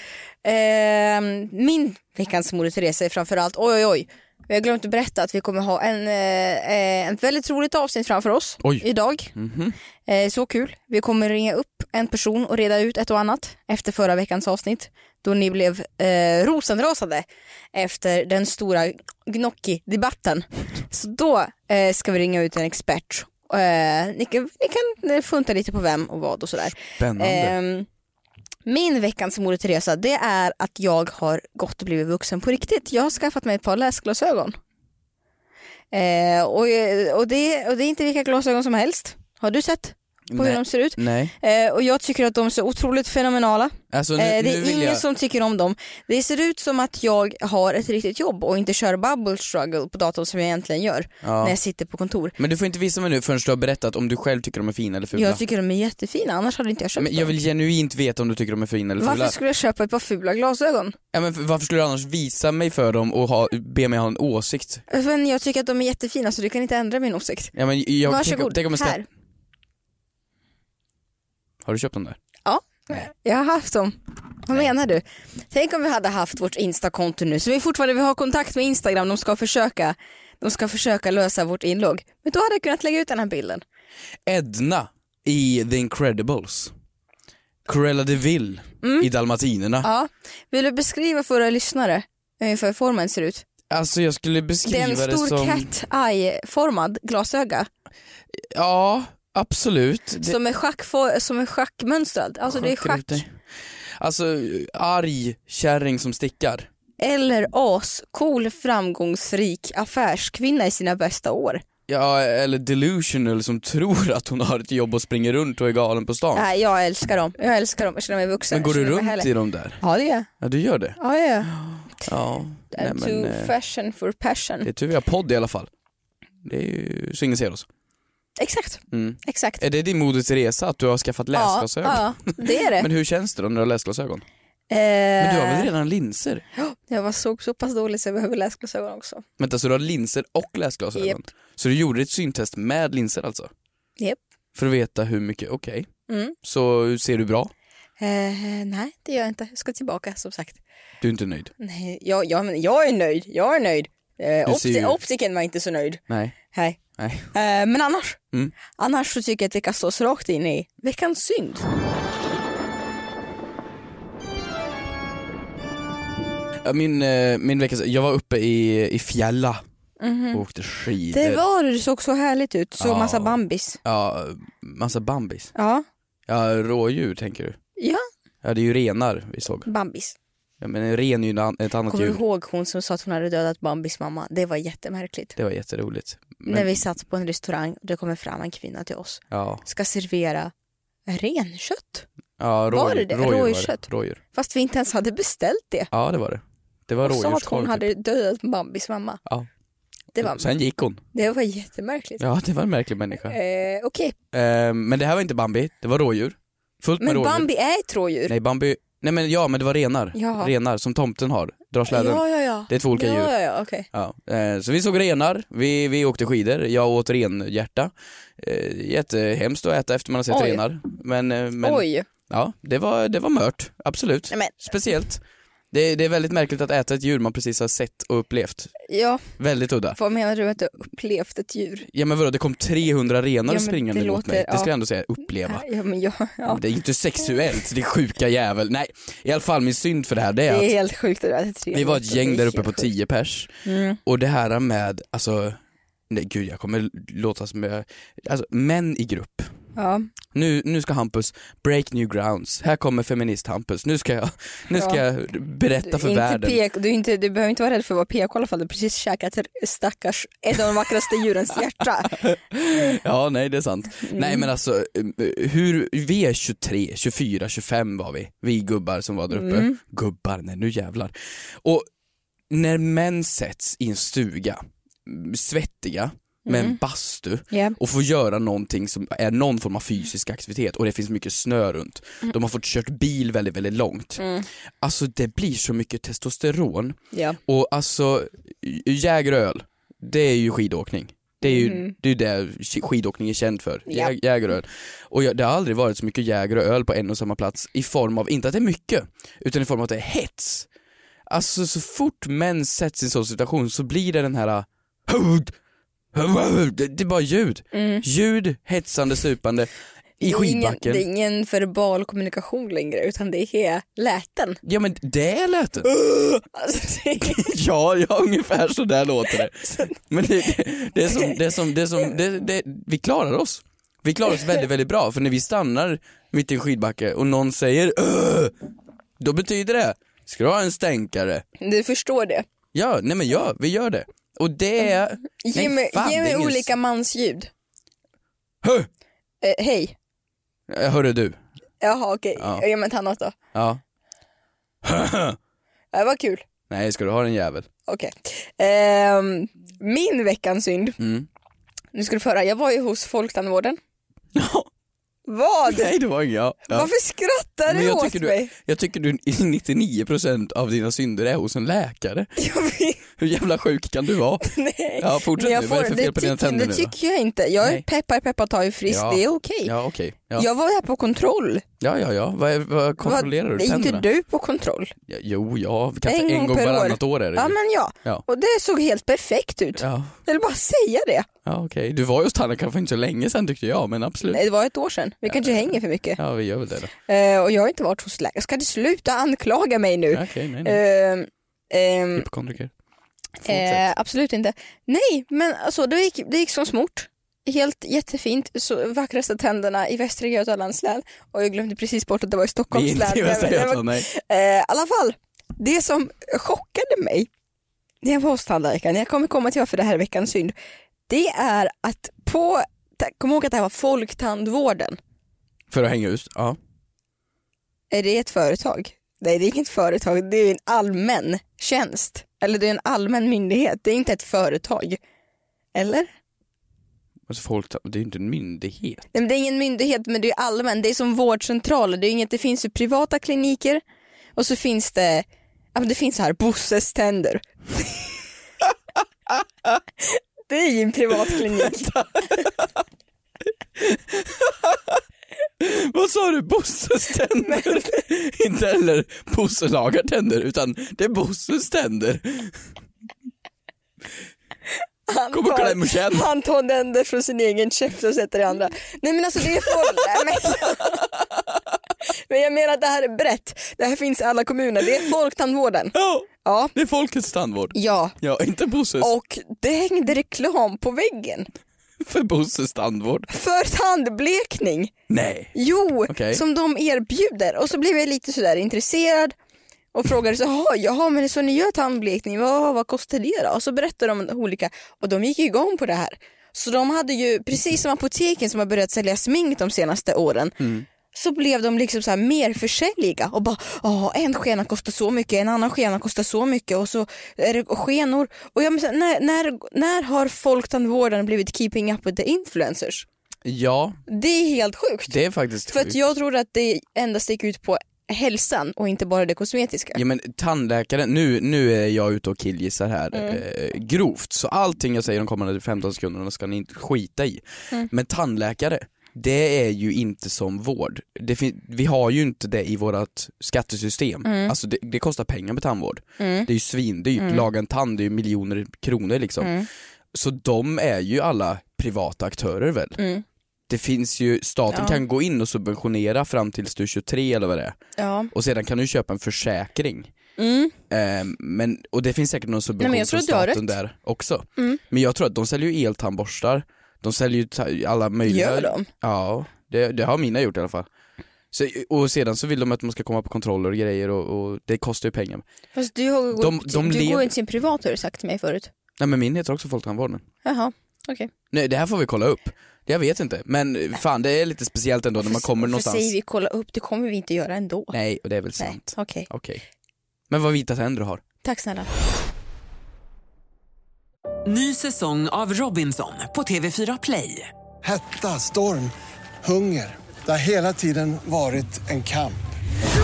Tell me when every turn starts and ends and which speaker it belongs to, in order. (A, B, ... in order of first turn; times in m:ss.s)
0:00.4-0:09.3 A
0:08.6-0:09.7 B
0:10.1-0:27.9 A
0:26.8-0:27.5 B
0:28.6-0:34.6 A
0:35.9-0:52.4 A
0:40.3-0:41.3 B
0:43.9-0:45.0 B
0:51.2-0:51.6 B
0:52.4-0:55.4 B
0:55.1-0:57.3 A
0:57.0-0:59.4 B
0:59.0-1:01.0 A
1:01.1-1:04.8 B
1:04.9-1:07.5 A
1:07.5-1:09.0 B
1:08.0-1:09.0 A
1:11.6-1:12.2 B
1:12.4-1:23.6 A
1:24.2-1:26.7 B
1:27.6-1:29.9 B
1:28.8-1:29.1 A
1:29.8-1:33.4 A
1:33.7-1:35.7 B
1:34.6-1:37.7 A
1:38.3-1:40.4 B
1:40.2-1:43.2 A
1:42.5-1:43.4 B
1:44.0-1:46.7 B
1:47.0-1:51.6 A
1:51.9-1:56.5 B
1:56.3-1:59.3 A
1:58.5-1:59.8 B
1:59.8-2:00.3 A
2:00.4-2:03.5 B
2:01.0-2:01.5 A
2:02.7-2:04.7 A
2:04.6-2:05.7 B
2:06.4-2:07.7 B
2:08.4-2:09.6 A
2:08.9-2:14.2 B
2:11.3-2:12.9 A
2:14.7-2:15.7 A
2:15.2-2:16.4 B
2:16.5-2:19.2 A
2:19.4-2:23.5 B
2:20.9-2:21.2 A
2:24.5-2:25.9 B
2:26.1-2:26.3 A
2:26.4-2:27.5 B
2:28.0-2:30.6 A
2:31.0-2:31.5 B
2:31.6-2:36.0 A
2:34.4-2:35.0 B
2:36.1-2:36.4 B
2:36.5-2:36.8 A
2:36.9-2:37.3 B
2:37.3-2:38.2 A
2:38.8-2:41.6 A
2:46.6-2:49.6 B
2:50.0-2:50.4 A
2:50.3-2:51.4 B
2:51.1-2:53.8 A
2:52.8-2:55.5 B
2:55.5-2:55.8 A
2:56.3-2:57.6 B
2:57.8-2:58.0 A
2:58.4-2:59.7 B
2:59.6-3:00.1 A
3:00.6-3:02.2 B
3:01.9-3:05.4 A
3:05.4-3:06.8 B
3:06.4-3:10.5 A
3:09.3-3:09.6 B
3:11.1-3:12.0 A
3:12.4-3:14.2 B
3:12.7-3:15.9 A
3:15.9-3:17.8 B
3:17.0-3:19.2 A
3:20.1-3:20.5 A
3:20.2-3:21.0 B
3:21.1-3:22.2 A
3:22.2-3:23.4 B
3:23.2-3:24.1 A
3:24.3-3:27.5 B
3:27.0-3:28.3 A
3:28.3-3:33.3 B
3:30.1-3:30.5 A
3:31.9-3:33.9 A
3:33.9-3:48.7 B
3:40.3-3:40.6 A
3:41.6-3:42.1 A
3:48.9-3:49.2 A
3:49.4-3:50.0 B
3:49.9-3:51.9 A
3:51.9-3:55.6 B
3:53.5-3:54.7 A
3:55.5-3:56.6 A
3:56.5-4:00.7 B
4:00.5-4:02.9 A
4:01.7-4:03.5 B
4:03.6-4:04.0 A
4:04.0-4:05.6 B
4:06.1-4:09.5 B
4:09.8-4:10.1 A
4:10.3-4:16.6 B
4:14.8-4:15.0 A
4:15.8-4:22.2 A
4:22.1-4:31.9 B
4:24.1-4:24.5 A
4:29.3-4:29.8 A
4:32.5-4:44.2 B
4:36.4-4:36.8 A
4:37.5-4:37.8 A
4:44.2-4:44.5 A
4:44.8-5:00.7 B
4:47.1-4:47.4 A
4:51.4-4:51.9 A
4:53.9-4:54.1 A
5:01.3-5:05.6 B
5:06.1-5:11.0 B
5:07.7-5:08.0 A
5:10.2-5:14.6 A
5:14.6-5:15.9 B
5:15.8-5:17.6 A
5:17.2-5:28.5 B
5:19.6-5:19.9 A
5:29.2-5:31.4 B
5:31.6-5:32.4 A
5:32.7-5:36.7 B
5:35.4-5:37.5 A
5:38.6-5:38.9 B
5:39.4-5:39.9 A
5:40.7-5:41.4 B
5:41.8-5:43.3 A
5:42.4-5:42.6 B
5:43.5-5:43.8 B
5:44.8-5:45.4 B
5:45.9-5:46.4 A
5:46.7-5:47.7 B
5:47.9-5:51.0 A
5:51.0-5:51.3 B
5:51.9-5:53.8 A
5:54.3-5:54.7 B
5:55.3-5:55.9 A
5:55.6-5:56.9 B
5:56.7-5:58.5 A
5:57.6-6:02.3 B
6:02.4-6:03.0 A
6:03.2-6:06.9 B
6:04.4-6:09.7 A
6:08.9-6:10.5 B
6:10.3-6:11.6 A
6:11.8-6:14.0 B
6:13.0-6:14.9 A
6:15.1-6:18.2 B
6:16.0-6:21.3 A
6:19.8-6:20.2 B
6:21.4-6:24.4 B
6:24.3-6:26.2 A
6:25.3-6:26.9 B
6:27.1-6:32.2 A
6:30.1-6:30.8 B
6:32.1-6:32.7 B
6:33.4-6:47.3 A
6:33.4-6:33.9 B
6:42.7-6:44.1 B
6:48.0-6:50.5 A
6:51.1-6:55.0 A
6:55.7-6:56.6 B
6:57.9-7:05.0 A
7:05.7-7:06.1 A
7:07.3-7:09.1 B
7:09.1-7:13.8 A
7:14.4-7:18.0 A
7:20.1-7:21.9 A
7:21.2-7:22.7 B
7:23.8-7:25.0 B
7:25.6-7:32.6 B
7:27.4-7:28.0 A
7:35.1-7:41.2 A
7:35.3-7:36.3 B
7:39.6-7:41.2 B
7:42.1-7:46.7 A
7:45.9-7:49.1 B
7:47.7-7:48.1 A
7:49.0-7:51.5 A
7:52.0-7:53.3 B
7:53.3-7:54.9 A
7:55.1-7:55.5 B
7:55.5-7:59.3 A
7:56.1-7:56.4 B
7:59.9-8:10.6 A
8:10.6-8:10.8 B
8:11.1-8:23.0 A
8:23.4-8:24.0 B
8:24.1-8:30.0 A
8:25.1-8:26.0 B
8:29.9-8:49.6 B
8:33.1-8:33.4 A
8:44.2-8:44.5 A
8:46.2-8:46.5 A
8:47.2-8:47.4 A
8:49.4-8:49.7 A
8:50.1-8:53.0 B
8:53.0-8:53.2 A
8:53.7-8:57.8 B
8:54.7-8:55.0 A
8:58.0-8:58.3 A
8:58.3-9:00.1 B
9:00.4-9:00.7 A
9:00.9-9:10.9 B
9:02.8-9:03.7 A
9:08.2-9:08.9 A
9:11.5-9:15.4 B
9:15.7-9:18.7 A
9:16.4-9:17.3 B
9:19.0-9:20.2 B
9:20.4-9:21.3 A
9:21.5-9:26.1 B
9:25.2-9:28.0 A
9:27.9-9:29.6 B
9:28.6-9:29.3 A
9:30.3-9:31.2 B
9:31.4-9:31.9 A
9:34.4-9:37.5 C
9:37.8-9:38.9 D
9:39.4-9:42.4 D